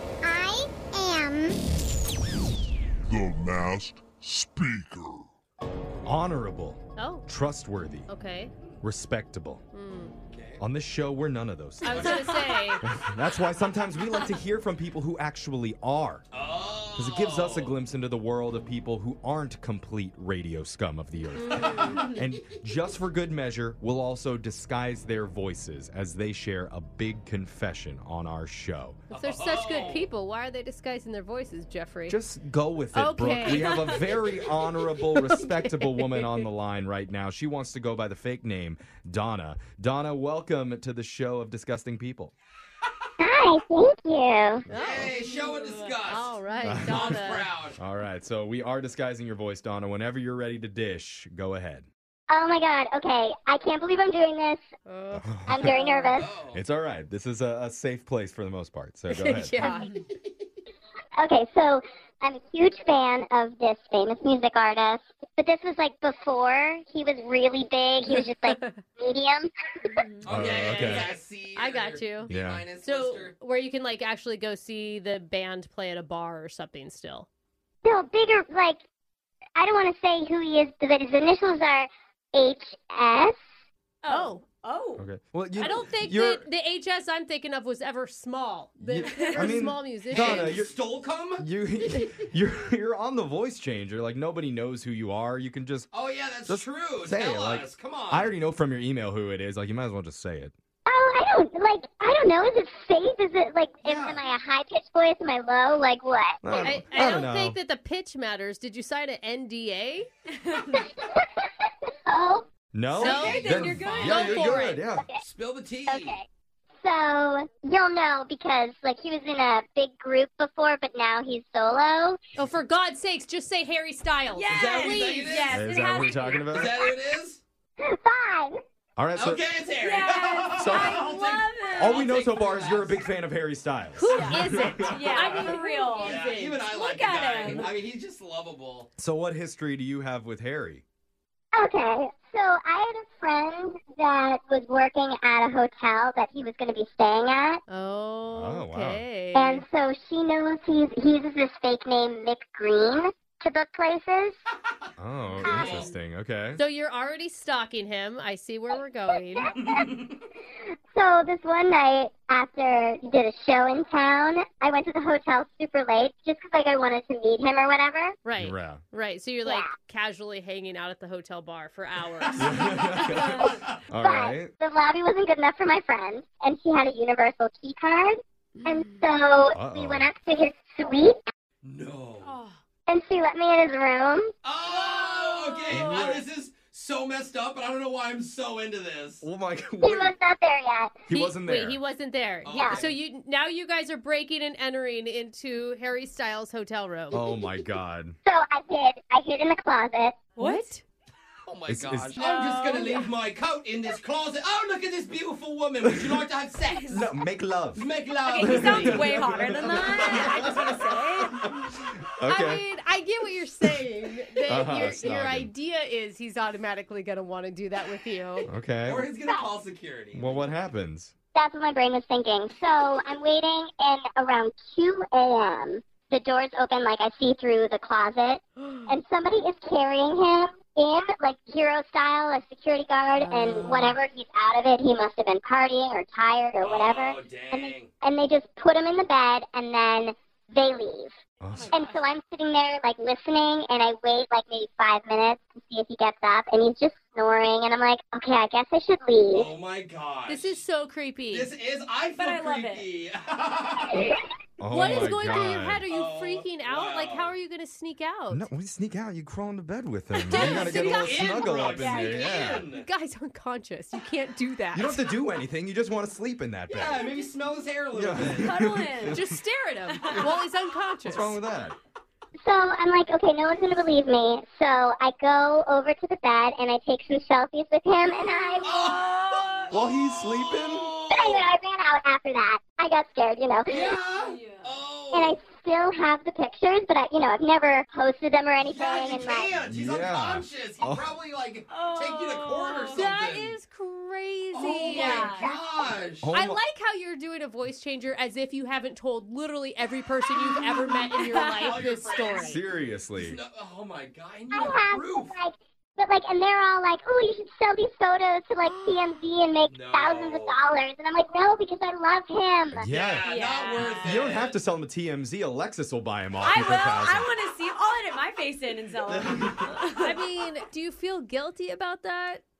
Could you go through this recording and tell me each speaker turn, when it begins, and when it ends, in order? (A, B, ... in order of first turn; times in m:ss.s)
0:00.2-0:01.6 A
0:03.0-0:05.3 B
0:06.0-0:06.2 C
0:06.0-0:08.1 D
0:07.0-0:07.3 E
0:08.1-0:08.5 E
0:08.8-0:09.6 D
0:09.7-0:10.1 E
0:10.3-0:10.6 C
0:10.6-0:12.2 D
0:11.8-0:12.8 E
0:11.9-0:12.2 C
0:12.8-0:16.3 D
0:16.3-0:17.8 C
0:16.9-0:29.0 D
0:21.4-0:22.0 E
0:21.5-0:22.1 C
0:29.1-0:32.2 E
0:29.1-0:30.1 C
0:32.1-0:42.3 D
0:32.9-0:33.8 E
0:33.5-0:34.1 F
0:35.2-0:36.4 E
0:43.2-0:44.6 A
0:44.7-0:45.2 E
0:44.8-0:47.8 C
0:45.2-0:46.0 F
0:46.0-0:47.5 E
0:46.6-0:51.9 D
0:52.3-0:54.6 A
0:54.8-0:56.2 E
0:55.1-0:55.8 D
0:55.5-0:56.3 A
0:56.1-0:56.6 C
0:56.5-0:59.8 D
0:59.1-1:00.0 E
1:01.2-1:09.5 A
1:08.1-1:08.8 E
1:10.0-1:10.2 F
1:10.2-1:13.3 C
1:10.3-1:11.1 D
1:10.8-1:11.0 E
1:11.6-1:17.3 E
1:12.3-1:12.6 D
1:17.8-1:18.8 A
1:19.6-1:23.4 A
1:24.0-1:25.0 F
1:24.1-1:24.4 E
1:25.0-1:26.4 D
1:25.6-1:30.6 E
1:28.8-1:30.8 D
1:29.1-1:29.4 F
1:30.1-1:31.5 C
1:31.4-1:35.9 D
1:35.9-1:38.4 C
1:36.5-1:40.5 D
1:40.9-1:46.8 A
1:43.8-1:44.2 C
1:46.4-1:47.6 D
1:46.6-1:50.1 E
1:50.4-1:50.8 F
1:50.6-1:52.5 A
1:52.7-1:55.1 D
1:53.0-1:56.2 C
1:53.0-1:54.8 E
1:53.1-1:54.5 F
1:55.0-1:55.2 A
1:55.9-1:56.3 A
1:56.8-2:02.2 A
2:02.3-2:05.5 E
2:04.3-2:06.5 F
2:04.5-2:05.6 C
2:05.5-2:06.7 D
2:06.5-2:07.4 C
2:07.8-2:08.6 A
2:09.0-2:09.4 D
2:09.2-2:13.0 C
2:09.8-2:12.1 F
2:10.5-2:11.0 D
2:11.7-2:15.1 D
2:13.9-2:16.6 E
2:14.1-2:17.7 F
2:15.2-2:18.9 C
2:19.0-2:20.8 D
2:21.6-2:27.6 A
2:27.7-2:29.6 E
2:28.3-2:29.0 D
2:29.3-2:34.4 A
2:35.0-2:36.6 D
2:35.3-2:35.9 C
2:35.4-2:35.9 A
2:35.5-2:35.8 E
2:36.5-2:39.5 E
2:39.4-2:39.8 A
2:39.7-2:40.0 C
2:40.9-2:48.2 A
2:48.2-2:53.4 E
2:48.4-2:48.8 D
2:49.4-2:49.7 A
2:52.4-2:54.5 D
2:54.0-3:01.2 A
2:58.6-2:59.0 E
2:59.6-3:00.1 D
3:01.6-3:02.4 C
3:02.2-3:02.6 F
3:02.9-3:04.3 A
3:04.4-3:09.2 C
3:04.6-3:05.9 F
3:05.7-3:06.2 D
3:09.2-3:10.1 D
3:09.8-3:11.0 A
3:11.1-3:11.8 D
3:11.1-3:17.2 E
3:12.4-3:13.0 C
3:12.5-3:12.8 A
3:17.1-3:18.2 D
3:18.2-3:20.2 A
3:20.4-3:20.8 E
3:20.4-3:20.8 F
3:21.4-3:27.0 C
3:21.7-3:22.2 D
3:22.2-3:23.1 F
3:25.8-3:26.2 D
3:26.9-3:27.9 D
3:27.8-3:30.5 C
3:28.2-3:31.4 F
3:28.4-3:30.6 D
3:30.0-3:31.4 E
3:31.7-3:32.6 D
3:32.2-3:38.5 E
3:34.5-3:35.5 D
3:38.5-3:39.1 D
3:38.9-3:40.5 C
3:40.1-3:41.1 D
3:41.3-4:01.2 A
3:48.6-3:48.9 E
3:53.2-3:54.0 E
3:56.6-3:57.9 C
4:01.4-4:01.8 D
4:01.5-4:02.1 F
4:01.7-4:09.5 A
4:09.3-4:10.6 C
4:10.3-4:11.5 E
4:11.3-4:14.1 C
4:12.2-4:12.9 F
4:14.6-4:15.8 D
4:14.7-4:18.4 E
4:14.8-4:17.3 C
4:18.3-4:22.7 D
4:20.3-4:22.4 F
4:20.3-4:22.9 C
4:22.7-4:25.1 E
4:24.7-4:27.0 D
4:26.7-4:28.5 C
4:27.9-4:29.4 D
4:28.4-4:29.2 F
4:29.1-4:31.4 E
4:29.9-4:30.3 F
4:31.0-4:31.8 D
4:32.4-4:38.8 A
4:38.2-4:39.7 F
4:38.6-4:41.5 C
4:39.7-4:40.9 D
4:41.1-4:44.0 A
4:43.7-4:45.4 C
4:44.2-4:44.7 F
4:45.1-4:49.6 A
4:48.6-4:53.5 C
4:49.7-4:51.2 D
4:51.7-4:53.0 F
4:52.9-4:55.5 E
4:54.5-4:56.3 C
4:54.8-4:55.5 F
4:56.2-4:56.6 D
4:56.3-5:02.6 E
5:00.4-5:01.8 F
5:01.3-5:02.6 C
5:02.3-5:03.4 D
5:03.2-5:05.4 C
5:04.5-5:12.9 A
5:08.6-5:09.1 E
5:09.7-5:10.6 C
5:12.7-5:13.2 D
5:12.8-5:14.6 C
5:13.2-5:14.2 F
5:14.0-5:17.3 D
5:16.4-5:20.2 F
5:19.1-5:19.7 D
5:20.0-5:22.4 E